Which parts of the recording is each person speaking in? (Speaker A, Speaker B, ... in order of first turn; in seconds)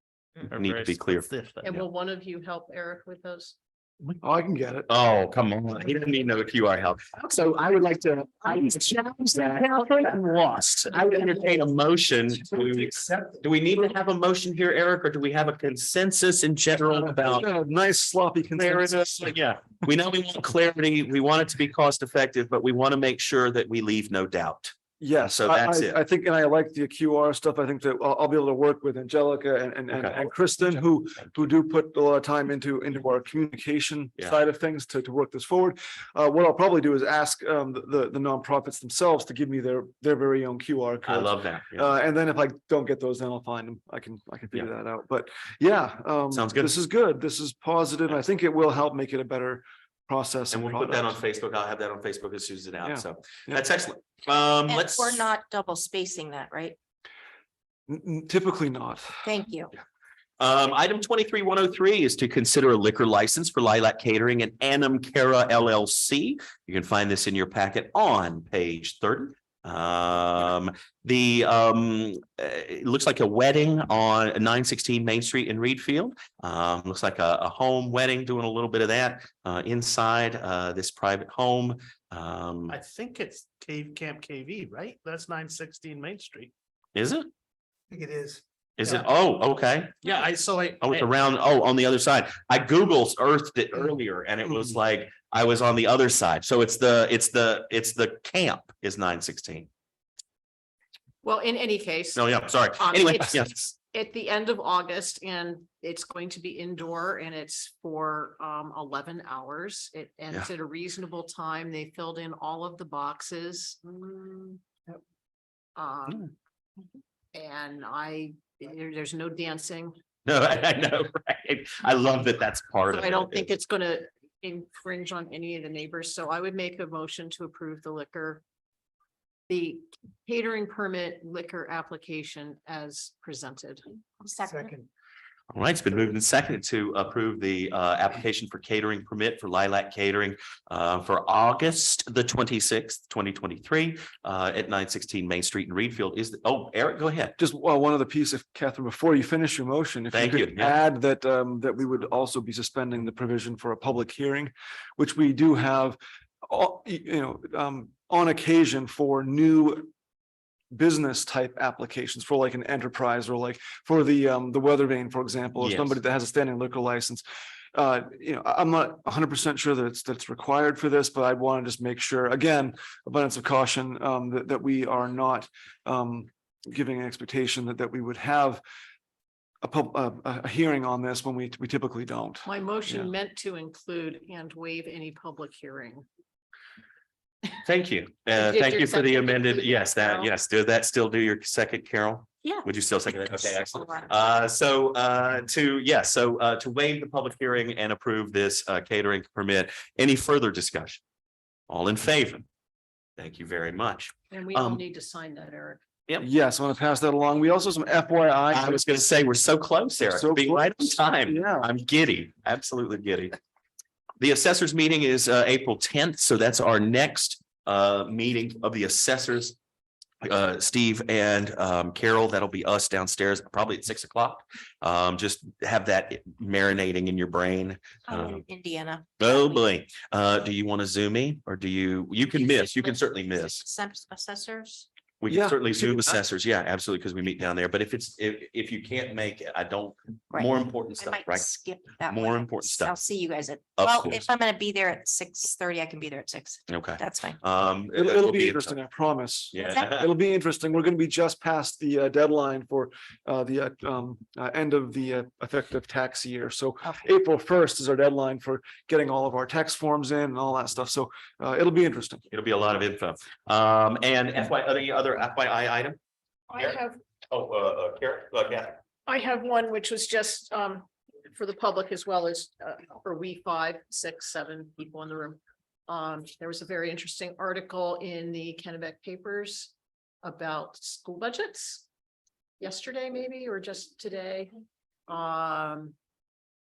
Speaker A: 0.4-1.7, 82.7-86.5, 87.9-89.0, 90.0-91.1
Speaker B: 0.5-1.9, 4.9-17.5, 18.5-24.7, 25.3-25.9, 29.9-30.2, 41.1-41.9, 46.3-46.7, 50.5-55.2, 60.4-82.8, 86.9-87.3, 88.8-90.0, 90.8-99.7, 102.1-103.7, 120.2-123.5, 135.5-147.3, 150.1-150.8, 165.6-166.0, 187.6-201.0, 201.7-202.4, 203.2-204.8, 208.5-213.4, 214.2-219.6, 220.2-228.4, 229.2-233.6, 235.2-243.0, 243.8-244.2, 246.7-248.8, 249.5-250.1, 262.3-266.0, 267.3-268.8
Speaker C: 1.6-3.5, 101.2-115.0, 115.8-116.3, 117.3-120.0, 122.9-128.4, 129.5-133.8, 182.4-186.0, 188.3-190.3, 204.3-205.8, 266.5-267.0, 269.1-281.9, 282.6-284.5, 285.1-285.9
Speaker D: 4.2-4.9, 17.0-19.3, 25.0-51.2, 52.8-53.6, 57.9-59.2, 147.4-159.9, 160.7-178.6, 179.6-183.1, 206.2-208.8, 210.1-211.7, 235.3-236.2, 247.9-262.2
Speaker E: 54.7-56.8, 59.2-59.7, 134.2-134.7, 192.4-192.7, 193.3-194.1, 228.1-229.7, 232.5-234.9, 240.3-247.4, 249.6-250.0